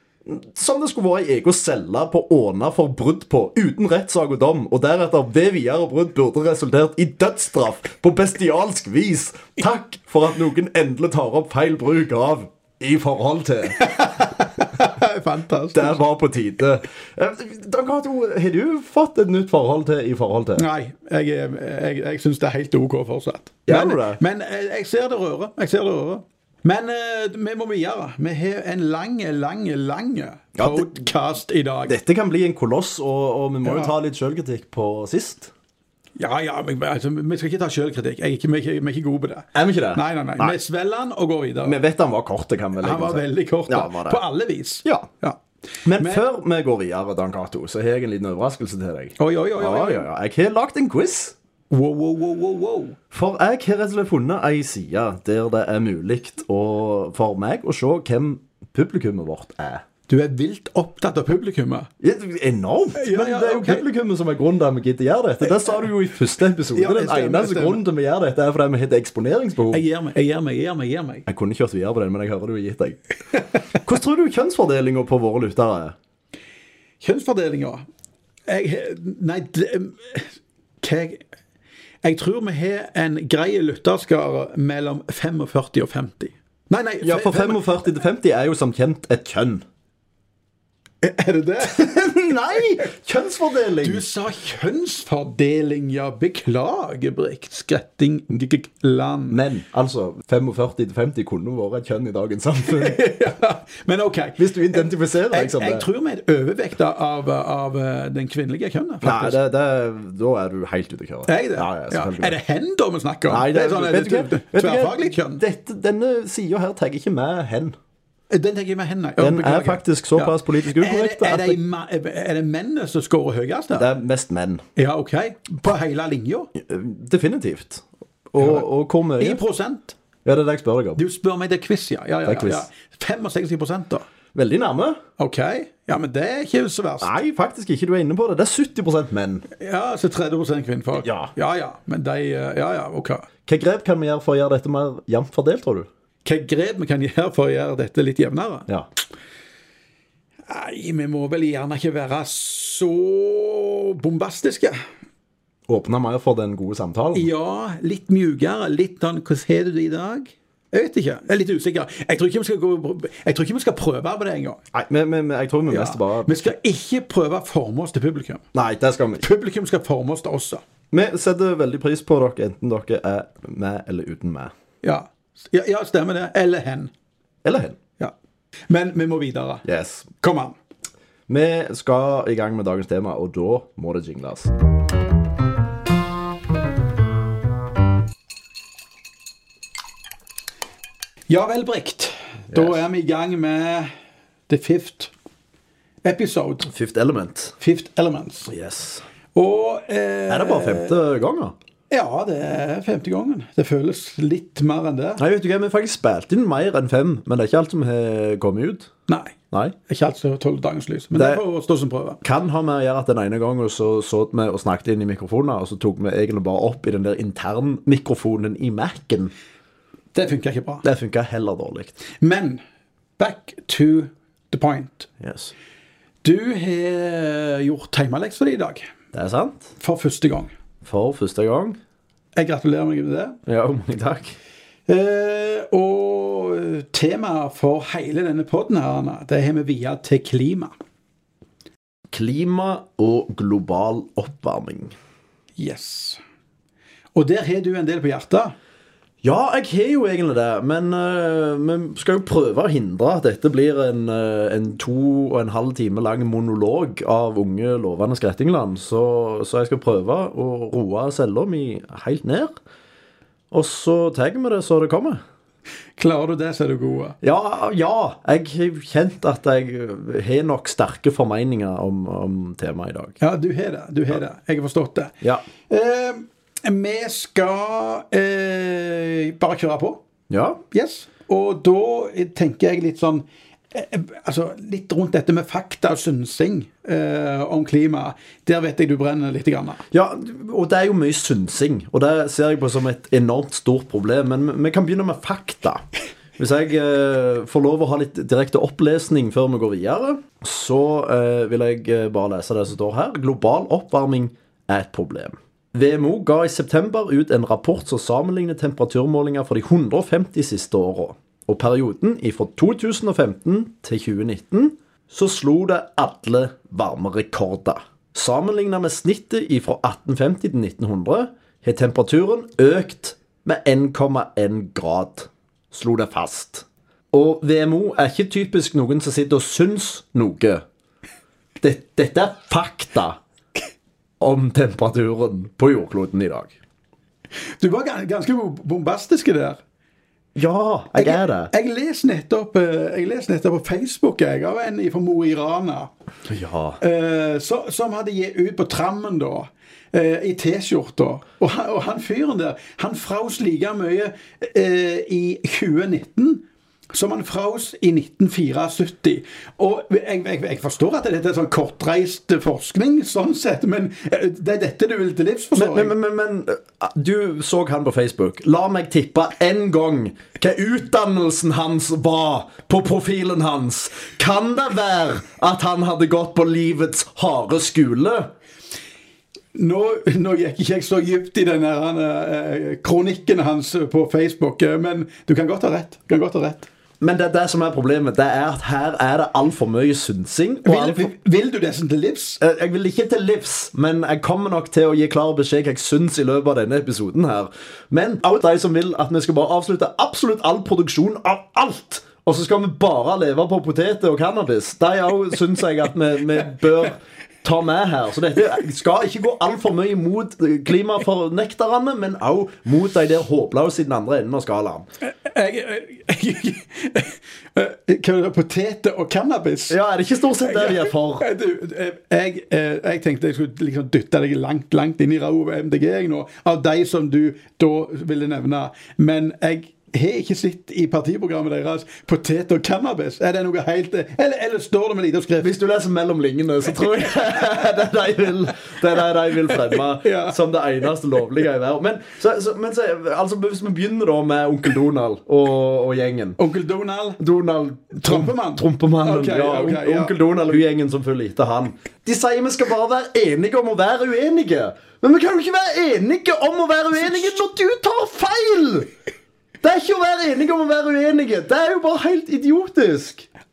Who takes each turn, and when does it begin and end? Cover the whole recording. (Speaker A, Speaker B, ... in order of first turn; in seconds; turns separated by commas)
Speaker A: 0.2-13.9, Speaker B: 13.8-16.0, Speaker A: 15.7-20.7, Speaker B: 20.6-31.9, Speaker A: 23.7-24.2, Speaker A: 30.6-31.1, Speaker A: 31.9-35.5, Speaker B: 33.6-33.9, Speaker B: 36.2-41.8, Speaker A: 39.5-40.5, Speaker A: 41.6-44.2, Speaker B: 42.8-45.4, Speaker A: 45.8-51.3, Speaker B: 45.9-46.2, Speaker B: 49.2-50.1, Speaker B: 51.7-53.0, Speaker A: 53.1-59.8, Speaker B: 60.1-61.9, Speaker A: 62.0-69.8, Speaker B: 62.9-63.8, Speaker B: 66.7-67.8, Speaker B: 69.7-71.2, Speaker A: 71.3-73.0, Speaker A: 73.8-75.9, Speaker B: 77.0-77.8, Speaker B: 78.5-81.2, Speaker B: 82.0-87.6, Speaker A: 87.0-89.6, Speaker B: 91.0-92.6, Speaker A: 91.7-94.0, Speaker B: 93.8-99.4, Speaker A: 99.3-103.0, Speaker B: 102.7-109.4, Speaker A: 104.4-105.8, Speaker A: 109.0-112.4, Speaker B: 111.3-115.4, Speaker A: 113.3-117.8, Speaker B: 118.3-123.9, Speaker A: 119.2-121.6, Speaker A: 123.8-124.6, Speaker B: 124.8-126.5, Speaker A: 126.5-129.4, Speaker B: 128.4-128.7, Speaker B: 129.2-130.0, Speaker A: 130.2-131.0, Speaker B: 131.0-134.0, Speaker A: 132.2-132.7, Speaker A: 134.3-135.0, Speaker B: 135.2-137.2, Speaker A: 137.0-139.4, Speaker B: 139.6-143.3, Speaker A: 141.0-141.3, Speaker A: 143.5-145.9, Speaker B: 146.2-148.7, Speaker B: 150.5-154.8, Speaker A: 155.7-157.3, Speaker B: 157.1-164.6, Speaker A: 164.7-166.5, Speaker B: 165.7-168.4, Speaker A: 168.5-169.2, Speaker B: 169.2-170.6, Speaker A: 170.9-174.5, Speaker B: 174.8-176.9, Speaker A: 177.4-177.8, Speaker B: 178.7-179.7, Speaker A: 179.7-180.1, Speaker B: 180.2-180.6, Speaker A: 181.3-184.5, Speaker B: 191.3-193.9, Speaker A: 192.5-192.8, Speaker B: 194.5-195.1, Speaker B: 196.0-196.7, Speaker A: 196.7-197.5, Speaker B: 197.6-198.5, Speaker A: 198.5-199.0, Speaker B: 199.3-201.0, Speaker A: 200.3-201.5, Speaker B: 201.9-205.2, Speaker A: 205.2-208.9, Speaker B: 209.1-209.3, Speaker B: 209.9-212.2, Speaker A: 211.1-211.4, Speaker A: 212.2-219.3, Speaker B: 220.1-220.8, Speaker A: 220.8-222.0, Speaker B: 222.2-222.6, Speaker B: 223.2-225.1, Speaker A: 225.2-225.5, Speaker B: 226.2-228.9, Speaker A: 229.1-229.7, Speaker B: 229.8-230.5, Speaker A: 230.8-231.8, Speaker B: 232.3-233.4, Speaker A: 233.5-234.3, Speaker B: 234.9-240.7, Speaker A: 242.1-244.9, Speaker B: 245.6-246.2, Speaker B: 247.1-248.5, Speaker A: 249.2-262.5, Speaker A: 263.5-265.2, Speaker B: 266.0-267.2, Speaker A: 267.2-273.2, Speaker B: 273.2-275.1, Speaker B: 275.7-280.0, Speaker A: 280.3-280.6, Speaker B: 280.7-289.8, Speaker A: 289.9-295.8, Speaker A: 296.4-330.6, Speaker A: 331.6-333.2, Speaker A: 334.2-336.5, Speaker B: 337.6-339.6, Speaker A: 340.3-341.5, Speaker B: 341.0-345.9, Speaker A: 346.3-346.8, Speaker B: 346.8-365.9, Speaker A: 365.6-378.3, Speaker B: 379.5-386.7, Speaker A: 387.0-391.1, Speaker B: 390.6-392.4, Speaker A: 392.4-414.9, Speaker B: 415.1-419.8, Speaker A: 419.7-421.2, Speaker B: 420.4-435.5, Speaker A: 435.4-446.4, Speaker B: 439.5-440.4, Speaker B: 446.4-447.2, Speaker A: 447.2-458.9, Speaker B: 448.0-450.6, Speaker B: 457.0-457.4, Speaker A: 459.6-463.3